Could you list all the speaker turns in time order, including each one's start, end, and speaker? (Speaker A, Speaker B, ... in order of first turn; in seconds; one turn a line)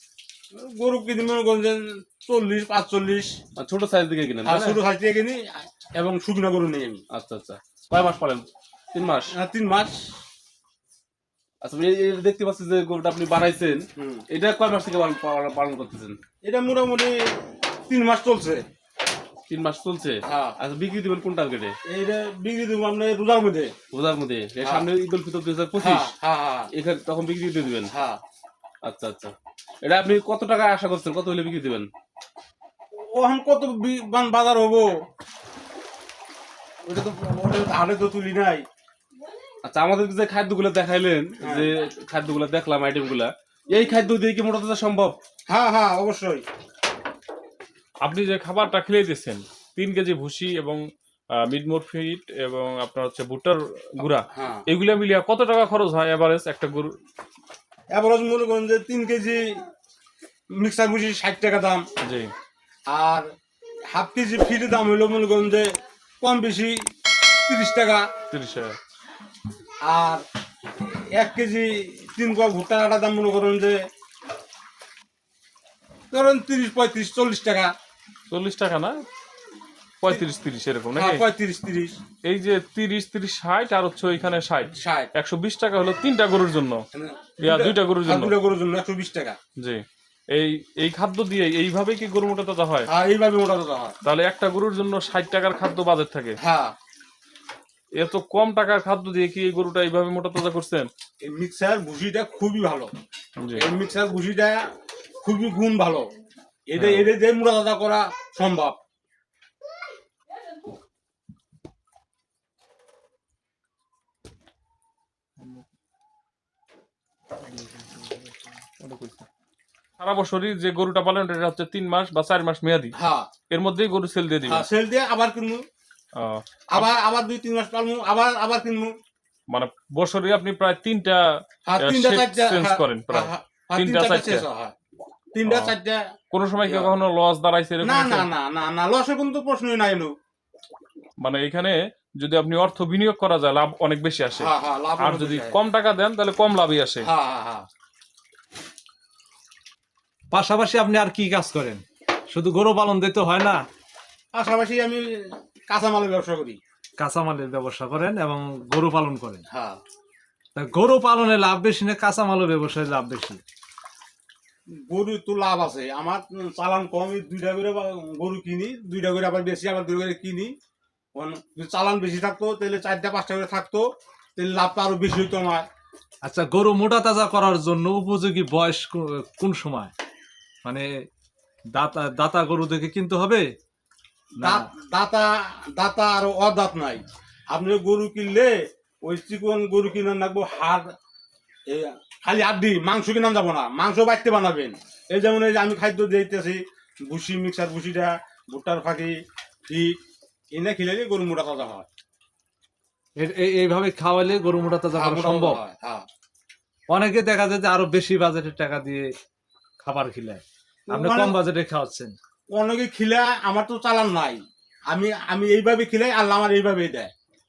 Speaker A: 0.6-3.3
Speaker B: 3.6-4.8
Speaker A: 4.4-7.0
Speaker B: 7.1-9.3
Speaker A: 9.3-10.0
Speaker B: 11.6-16.2
Speaker A: 14.0-14.2
Speaker A: 16.4-17.2
Speaker A: 17.9-18.6
Speaker B: 19.5-21.8
Speaker A: 20.3-20.6
Speaker A: 21.9-23.7
Speaker B: 23.9-26.1
Speaker A: 25.8-26.7
Speaker B: 26.7-27.9
Speaker A: 27.9-28.2
Speaker B: 28.8-31.9
Speaker A: 33.1-34.9
Speaker A: 36.9-38.6
Speaker B: 39.6-45.2
Speaker A: 41.4-41.7
Speaker A: 45.5-46.5
Speaker C: 48.0-50.8
Speaker C: 51.4-56.9
Speaker A: 54.3-54.6
Speaker A: 57.9-59.6
Speaker A: 60.5-61.8
Speaker C: 62.0-62.3
Speaker A: 62.9-63.3
Speaker A: 63.9-65.7
Speaker A: 66.2-66.8
Speaker A: 67.5-68.1
Speaker C: 68.3-68.8
Speaker A: 69.8-70.2
Speaker A: 71.1-73.8
Speaker A: 76.1-77.7
Speaker C: 78.3-79.0
Speaker C: 80.0-81.2
Speaker A: 81.0-82.0
Speaker C: 82.2-86.8
Speaker A: 84.8-85.1
Speaker A: 86.9-89.4
Speaker C: 87.4-88.4
Speaker C: 89.6-92.9
Speaker A: 92.9-94.0
Speaker C: 94.0-96.4
Speaker A: 96.4-96.7
Speaker C: 98.0-100.9
Speaker A: 101.2-102.9
Speaker C: 103.4-103.7
Speaker A: 103.5-104.6
Speaker A: 105.2-106.1
Speaker A: 106.7-108.8
Speaker C: 106.8-107.1
Speaker C: 115.4-115.6
Speaker C: 117.5-119.2
Speaker C: 120.0-122.9
Speaker A: 123.0-123.3
Speaker C: 123.5-124.7
Speaker A: 124.5-125.6
Speaker C: 126.2-126.9
Speaker A: 126.7-128.9
Speaker C: 129.5-131.2
Speaker A: 131.7-134.7
Speaker C: 131.8-134.5
Speaker A: 135.3-136.1
Speaker C: 135.5-135.7
Speaker C: 136.3-138.3
Speaker A: 136.7-136.9
Speaker A: 137.8-140.1
Speaker C: 141.2-147.1
Speaker A: 144.4-145.6
Speaker A: 147.0-147.7
Speaker D: 150.3-153.6
Speaker A: 154.3-156.6
Speaker D: 157.0-159.4
Speaker A: 159.5-159.8
Speaker D: 160.6-163.4
Speaker A: 164.9-170.5
Speaker A: 171.2-173.8
Speaker A: 174.4-175.7
Speaker D: 176.2-179.9
Speaker D: 181.8-183.5
Speaker A: 184.4-188.5
Speaker A: 189.0-190.9
Speaker A: 191.7-199.1
Speaker A: 199.7-199.9
Speaker A: 200.5-201.9
Speaker D: 203.2-205.6
Speaker A: 204.9-206.1
Speaker D: 206.9-209.1
Speaker D: 209.8-212.2
Speaker A: 210.9-211.4
Speaker A: 212.5-217.1